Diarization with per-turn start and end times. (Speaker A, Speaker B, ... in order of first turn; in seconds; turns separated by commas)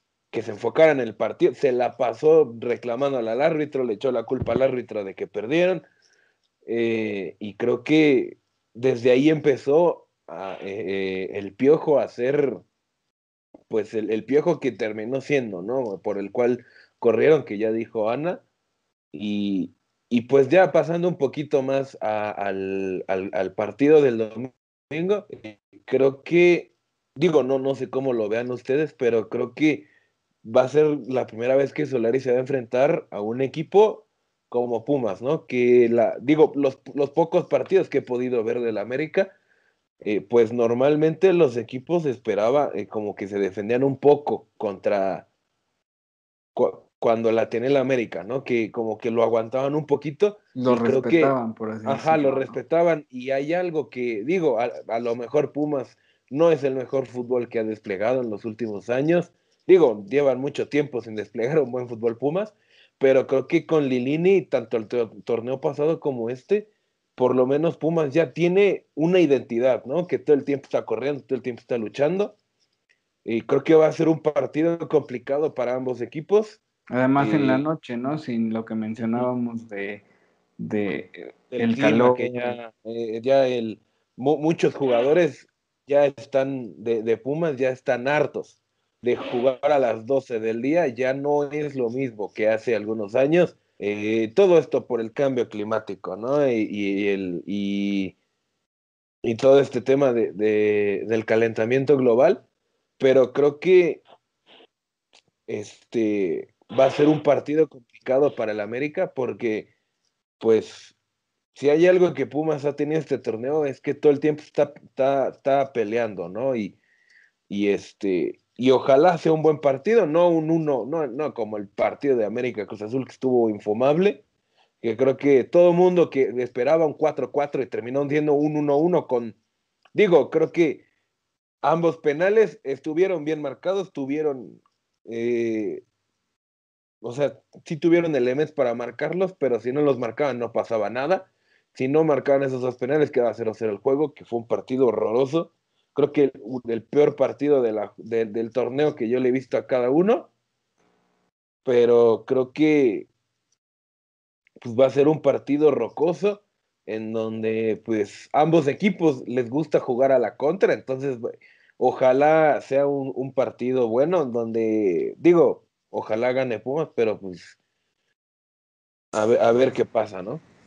Speaker A: 0.3-5.9, Speaker A: 6.7-12.6, Speaker A: 13.7-18.4, Speaker A: 19.1-29.9, Speaker A: 30.4-39.3, Speaker A: 40.0-45.3, Speaker A: 46.5-72.4, Speaker B: 50.5-52.6, Speaker A: 73.2-76.6, Speaker B: 76.9-80.0, Speaker A: 77.2-77.7, Speaker B: 80.6-82.6, Speaker A: 81.5-98.2, Speaker A: 99.2-102.4, Speaker A: 103.0-104.0, Speaker A: 105.5-109.7, Speaker A: 110.4-111.0, Speaker A: 111.5-116.8, Speaker A: 117.5-124.2, Speaker A: 124.8-129.4, Speaker A: 129.9-130.8, Speaker A: 131.6-135.8, Speaker A: 137.0-150.3, Speaker A: 151.7-153.1, Speaker A: 154.6-167.6, Speaker A: 169.1-170.4